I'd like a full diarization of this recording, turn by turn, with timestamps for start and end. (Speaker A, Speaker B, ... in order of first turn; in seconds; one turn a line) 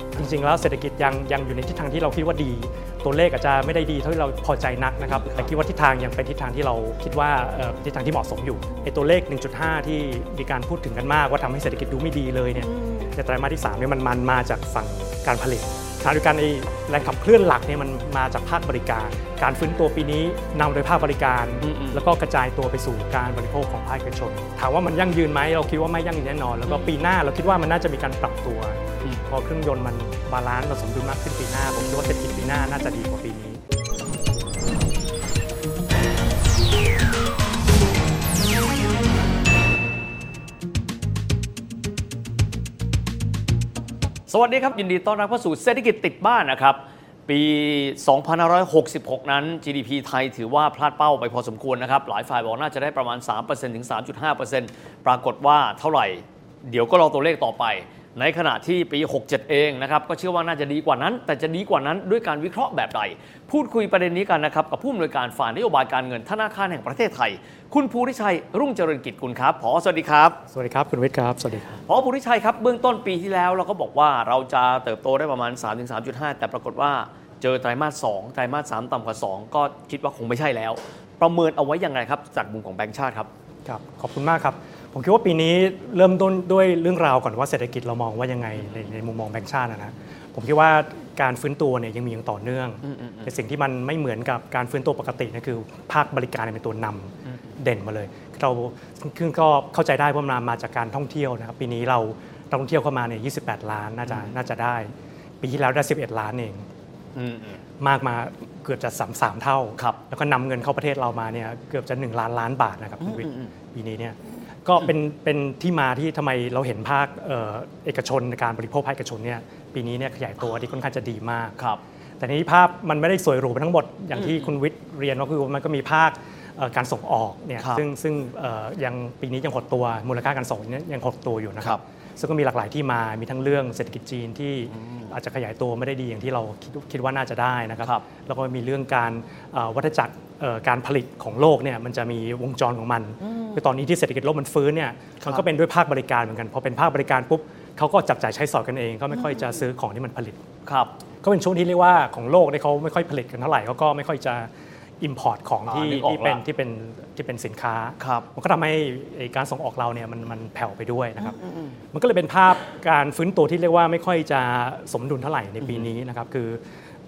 Speaker A: 0.1-33.6
Speaker B: 12.7-13.0
Speaker B: 21.6-22.0
Speaker B: 44.3-70.4
Speaker A: 70.5-71.8
Speaker B: 71.8-83.3
Speaker A: 83.7-104.9
Speaker B: 92.8-93.3
Speaker B: 104.0-104.3
Speaker A: 105.4-106.6
Speaker B: 107.1-107.6
Speaker A: 107.8-121.5
Speaker B: 113.0-113.5
Speaker A: 122.2-150.4
Speaker B: 124.2-124.4
Speaker B: 134.8-135.1
Speaker B: 143.2-143.6
Speaker B: 150.6-150.9
Speaker A: 151.2-161.3
Speaker B: 155.7-156.4
Speaker B: 158.0-158.2
Speaker B: 161.2-161.8
Speaker A: 161.9-166.6
Speaker B: 165.6-165.9